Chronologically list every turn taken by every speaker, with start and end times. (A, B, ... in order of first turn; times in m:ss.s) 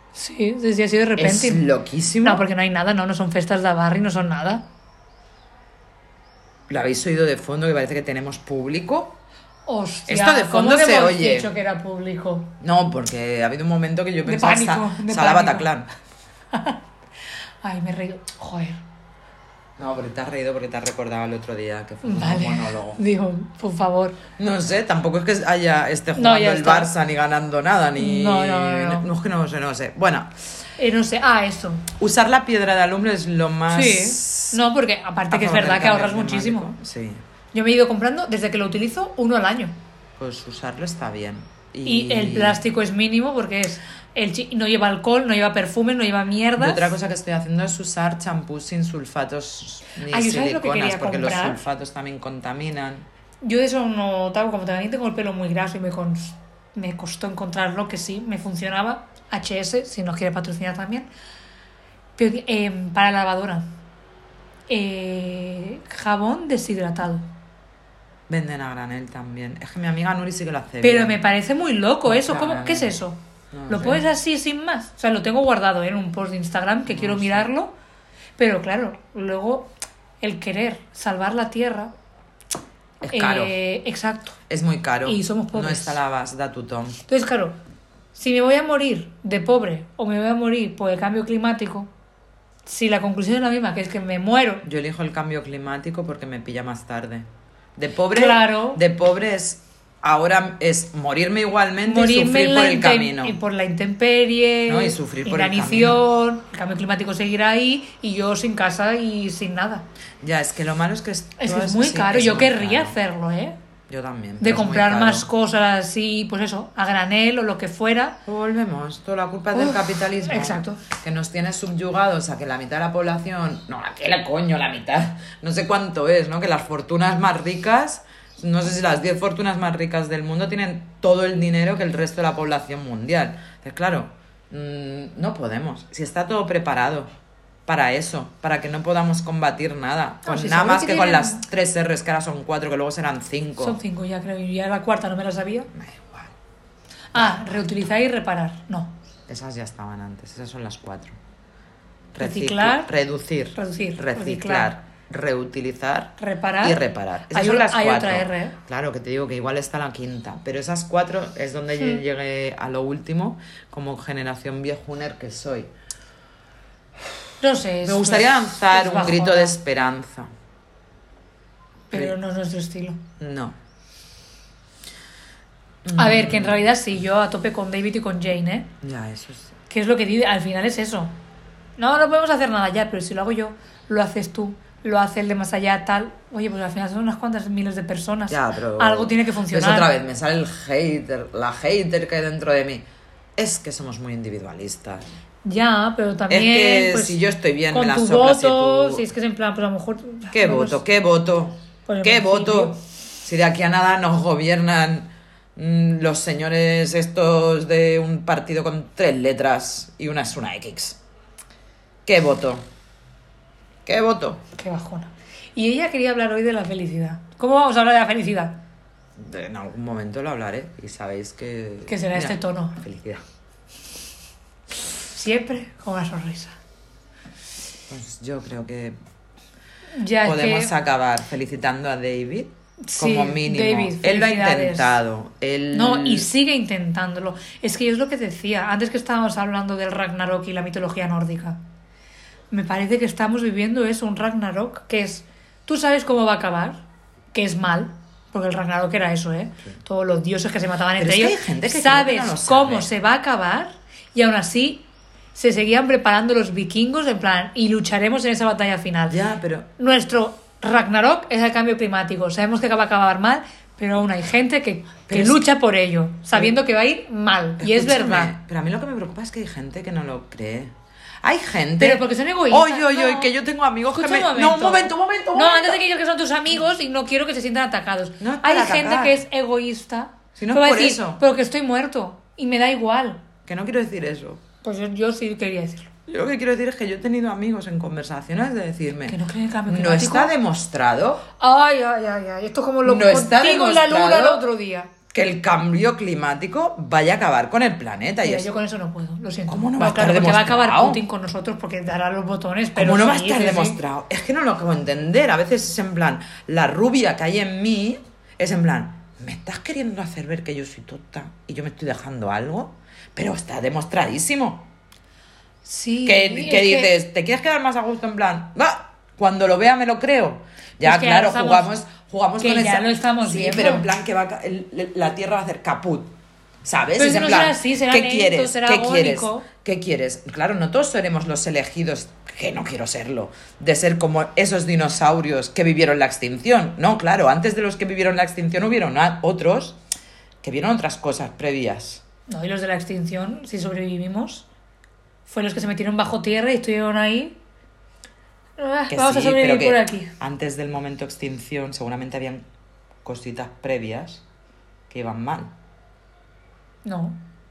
0:00.2-0:01.6 A
0:01.2-0:02.5 B
0:02.2-0:04.6 A
0:06.7-0:09.2 B
0:09.7-0:12.5 A
0:10.1-0:11.5 B
0:12.6-0:15.9 B
0:14.3-0:15.7 A
0:16.5-0:16.8 A
0:17.6-0:18.8 A
0:19.8-0:23.0 B
0:22.0-0:24.2 A
0:24.4-0:30.3 B
0:26.2-0:26.9 A
0:28.0-0:29.1 A
0:30.8-0:31.9 A
0:32.0-0:34.6 B
0:33.7-0:36.7 A
0:35.3-0:37.2 B
0:37.5-0:39.8 A
0:40.2-0:42.6 B
0:41.8-0:46.9 A
0:46.6-0:53.1 B
0:50.1-0:51.6 A
0:53.4-1:01.1 A
1:02.2-1:03.7 A
1:04.7-1:07.2 A
1:08.3-1:11.2 B
1:10.8-1:17.7 A
1:12.0-1:13.0 B
1:13.5-1:14.0 B
1:16.9-1:17.5 B
1:18.4-1:21.9 A
1:23.0-1:23.6 B
1:23.1-1:24.4 A
1:24.5-1:27.0 B
1:25.0-1:26.0 A
1:27.1-1:27.6 A
1:28.1-1:31.9 A
1:32.7-1:34.6 A
1:34.6-1:43.4 B
1:38.1-1:38.8 A
1:41.8-1:49.8 A
1:44.7-1:46.0 B
1:50.2-1:53.0 B
1:51.4-1:53.6 A
1:53.9-1:55.3 B
1:54.4-1:58.2 A
1:58.3-2:17.1 B
1:59.6-2:00.8 A
2:17.7-2:23.8 B
2:20.3-2:21.4 A
2:23.6-2:25.7 A
2:25.7-2:26.4 B
2:27.1-2:28.9 A
2:27.2-2:27.5 B
2:29.3-2:31.2 B
2:32.1-2:45.7 B
2:32.2-2:32.9 A
2:33.6-2:34.7 A
2:36.2-2:38.6 A
2:47.4-2:49.6 A
2:47.8-2:50.3 B
2:51.9-2:53.0 A
2:53.2-2:53.6 B
2:55.8-2:56.7 B
2:56.0-2:58.7 A
2:58.8-2:59.5 B
2:59.7-3:01.1 A
3:01.8-3:09.9 A
3:08.3-3:12.8 B
3:13.4-3:15.0 B
3:15.4-3:17.2 A
3:16.3-3:19.0 B
3:17.7-3:20.8 A
3:20.3-3:31.0 B
3:21.9-3:22.8 A
3:32.0-3:32.6 B
3:33.8-3:34.4 B
3:34.6-3:38.6 A
3:39.2-3:43.2 B
3:41.9-3:42.8 A
3:45.1-3:46.6 A
3:47.9-3:49.0 B
3:50.0-3:50.7 A
3:50.2-3:56.3 B
3:52.9-3:55.0 A
3:55.7-4:01.6 A
4:02.5-4:06.8 A
4:07.3-4:19.2 A
4:11.0-4:12.9 B
4:19.1-4:19.7 B
4:19.8-4:28.4 A
4:25.1-4:25.4 B
4:27.6-4:35.8 B
4:31.8-4:33.3 A
4:33.9-4:43.2 A
4:38.2-4:39.2 B
4:40.4-4:41.2 B
4:43.5-4:44.4 B
4:44.6-4:45.9 A
4:46.1-4:49.2 B
4:49.1-4:50.3 A
4:49.7-4:51.3 B
4:51.4-4:54.9 A
4:52.8-4:54.5 B
4:55.1-4:58.5 B
4:58.2-5:03.8 A
4:59.5-5:01.0 B
5:02.8-5:14.7 B
5:15.6-5:16.9 A
5:16.0-5:39.8 B
5:20.8-5:21.7 A
5:22.4-5:23.9 A
5:27.0-5:29.5 A
5:40.4-5:42.0 B
5:42.3-5:44.5 A
5:45.3-5:47.4 A
5:48.6-5:50.1 A
5:48.9-5:52.5 B
5:53.0-5:54.2 B
5:54.9-5:55.5 B
5:56.8-5:57.2 A